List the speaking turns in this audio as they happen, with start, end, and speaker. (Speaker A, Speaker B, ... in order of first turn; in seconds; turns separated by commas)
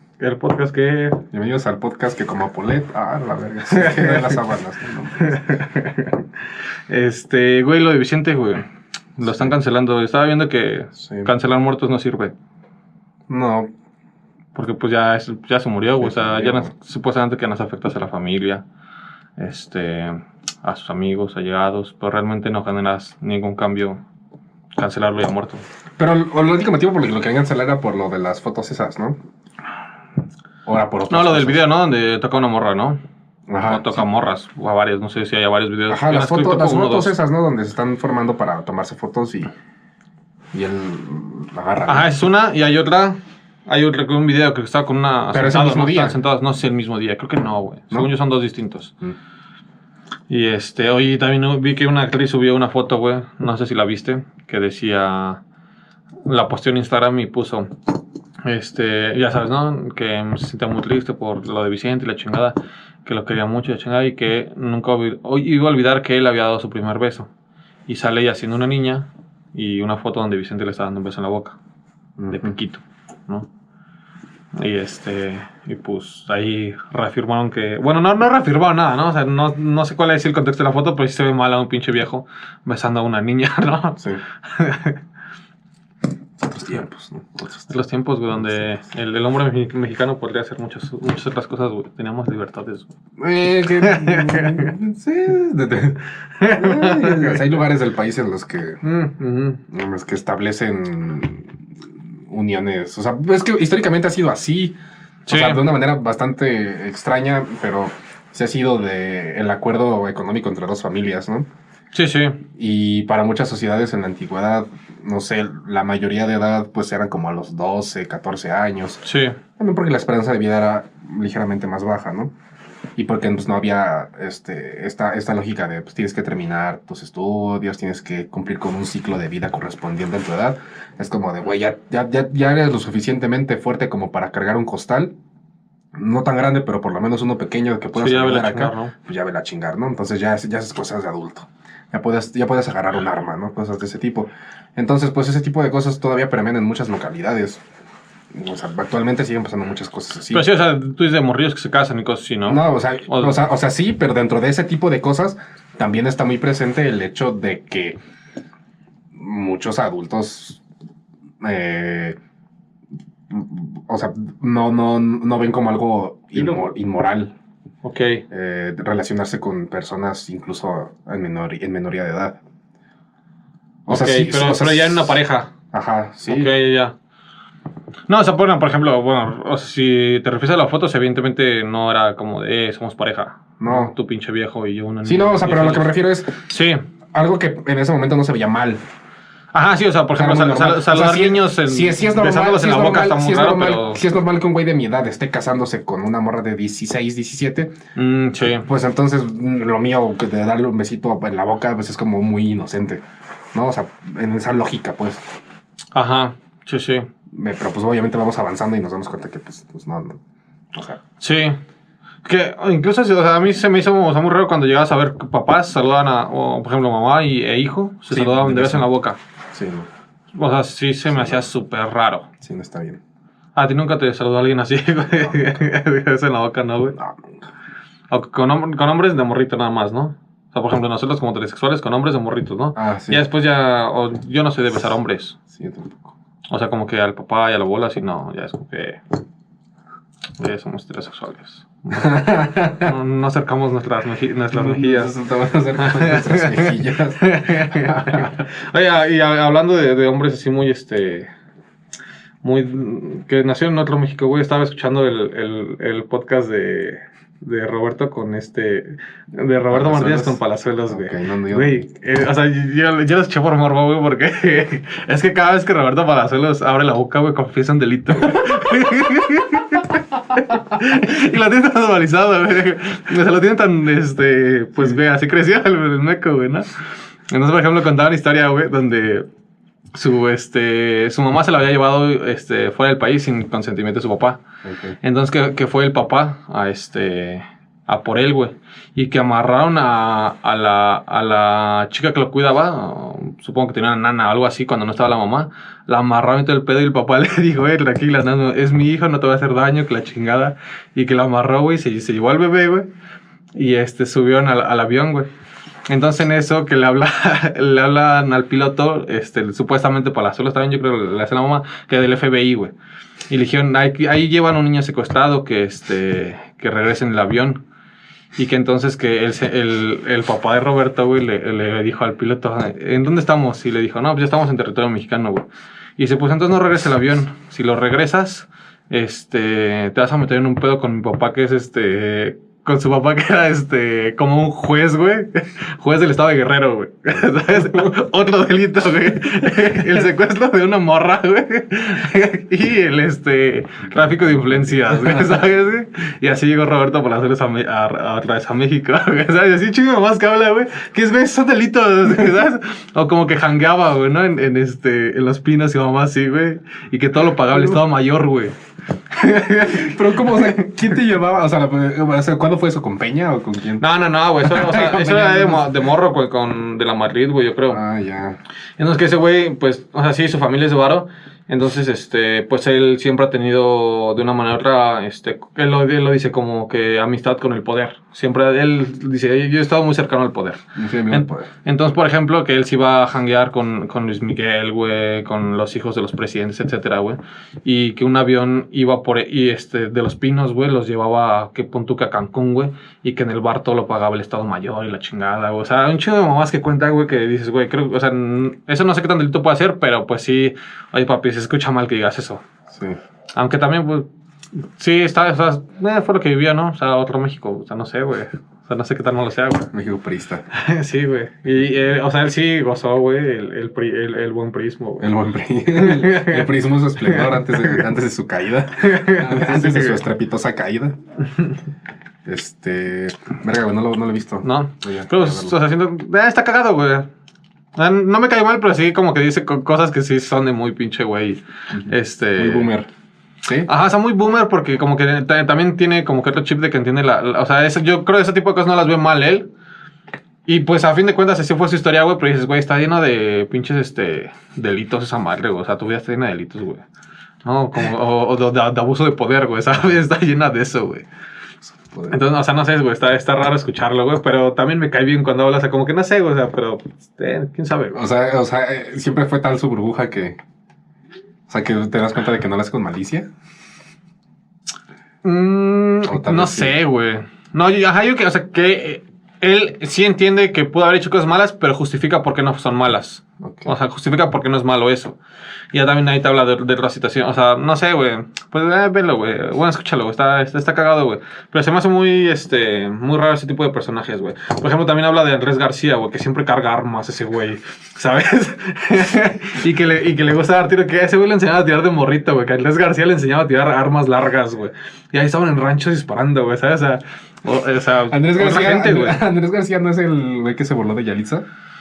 Speaker A: 0.2-1.2, Speaker B: 1.3-5.7, Speaker A: 3.7-4.3, Speaker A: 5.2-6.2, Speaker A: 6.9-8.7, Speaker A: 9.2-12.3, Speaker B: 9.2-9.5, Speaker B: 11.0-11.3, Speaker B: 13.3-13.7, Speaker A: 14.5-18.6, Speaker B: 16.0-16.7, Speaker A: 19.4-24.0, Speaker A: 24.8-25.6, Speaker B: 26.0-29.2, Speaker B: 30.7-31.7, Speaker A: 31.1-33.0, Speaker B: 33.5-34.0, Speaker A: 33.6-37.1, Speaker B: 35.9-39.5, Speaker B: 40.5-42.1, Speaker A: 41.9-49.0, Speaker B: 45.3-46.2, Speaker A: 50.3-55.4, Speaker A: 56.3-57.7, Speaker A: 58.5-67.3, Speaker A: 67.9-71.6, Speaker B: 72.2-72.5, Speaker A: 72.3-73.5, Speaker A: 74.5-85.0, Speaker B: 86.4-87.8, Speaker A: 87.7-92.9, Speaker B: 88.3-88.7, Speaker B: 93.2-98.8, Speaker A: 93.8-94.8, Speaker A: 96.4-97.6, Speaker A: 98.8-99.6, Speaker B: 99.7-101.5, Speaker B: 102.3-104.8, Speaker A: 105.3-105.6, Speaker B: 105.3-111.5, Speaker A: 111.9-112.4, Speaker B: 112.5-119.0, Speaker A: 119.0-119.4, Speaker B: 119.6-122.3, Speaker B: 123.0-135.2, Speaker B: 135.9-147.6, Speaker A: 138.0-138.9, Speaker B: 148.3-150.5, Speaker A: 150.3-153.4, Speaker B: 152.5-158.0, Speaker B: 159.2-160.6, Speaker B: 161.4-162.2, Speaker B: 163.3-167.3, Speaker A: 167.8-168.2, Speaker B: 168.3-172.4, Speaker B: 173.9-175.2, Speaker A: 173.9-175.5, Speaker B: 175.7-176.5, Speaker A: 176.3-176.9, Speaker A: 178.1-185.9, Speaker B: 183.6-183.9, Speaker B: 185.1-186.4, Speaker A: 186.5-186.8, Speaker B: 187.1-188.8, Speaker A: 189.5-194.0, Speaker B: 190.1-197.8, Speaker A: 198.0-198.7, Speaker B: 198.7-205.3, Speaker A: 205.9-207.1, Speaker B: 207.3-210.2, Speaker B: 210.7-211.0, Speaker A: 211.2-211.6, Speaker A: 212.2-219.2, Speaker B: 218.1-218.9, Speaker B: 219.5-219.9, Speaker A: 220.4-222.3, Speaker B: 221.1-221.5, Speaker B: 222.4-223.0, Speaker A: 223.6-227.0, Speaker B: 225.2-225.7, Speaker B: 227.0-227.3, Speaker A: 228.1-235.4, Speaker B: 232.8-233.2, Speaker B: 235.5-236.1, Speaker A: 236.5-239.0, Speaker A: 240.4-245.1, Speaker B: 241.9-242.9, Speaker B: 244.5-248.4, Speaker A: 245.8-251.3, Speaker A: 252.4-276.7, Speaker B: 259.7-261.9, Speaker A: 277.3-279.3, Speaker A: 279.9-284.4, Speaker B: 284.6-285.0, Speaker A: 285.0-302.9, Speaker A: 303.6-305.3, Speaker A: 305.9-312.7, Speaker A: 313.3-317.6, Speaker A: 318.4-325.5, Speaker A: 326.0-358.6, Speaker B: 343.9-345.4, Speaker B: 357.5-357.8, Speaker A: 359.1-360.8, Speaker B: 359.7-363.8, Speaker A: 363.8-367.8, Speaker B: 364.4-365.9, Speaker B: 367.7-368.4, Speaker A: 368.8-402.4, Speaker B: 380.8-381.5, Speaker B: 402.7-403.0, Speaker A: 403.4-404.1, Speaker A: 404.6-409.7, Speaker B: 409.7-410.5, Speaker A: 410.5-415.1, Speaker B: 415.0-421.0, Speaker A: 415.7-416.5, Speaker A: 417.0-417.9, Speaker A: 418.8-420.0, Speaker B: 422.2-425.6, Speaker A: 424.4-427.1, Speaker A: 427.8-432.7, Speaker B: 431.8-432.9, Speaker B: 433.4-433.7, Speaker A: 433.7-439.5, Speaker A: 440.5-446.8, Speaker A: 447.4-451.1, Speaker B: 451.7-452.2, Speaker A: 452.1-458.0, Speaker B: 457.9-460.4, Speaker B: 461.5-463.3, Speaker A: 465.2-475.2, Speaker B: 466.1-466.8, Speaker B: 473.4-473.7, Speaker A: 475.7-499.2, Speaker B: 498.1-501.4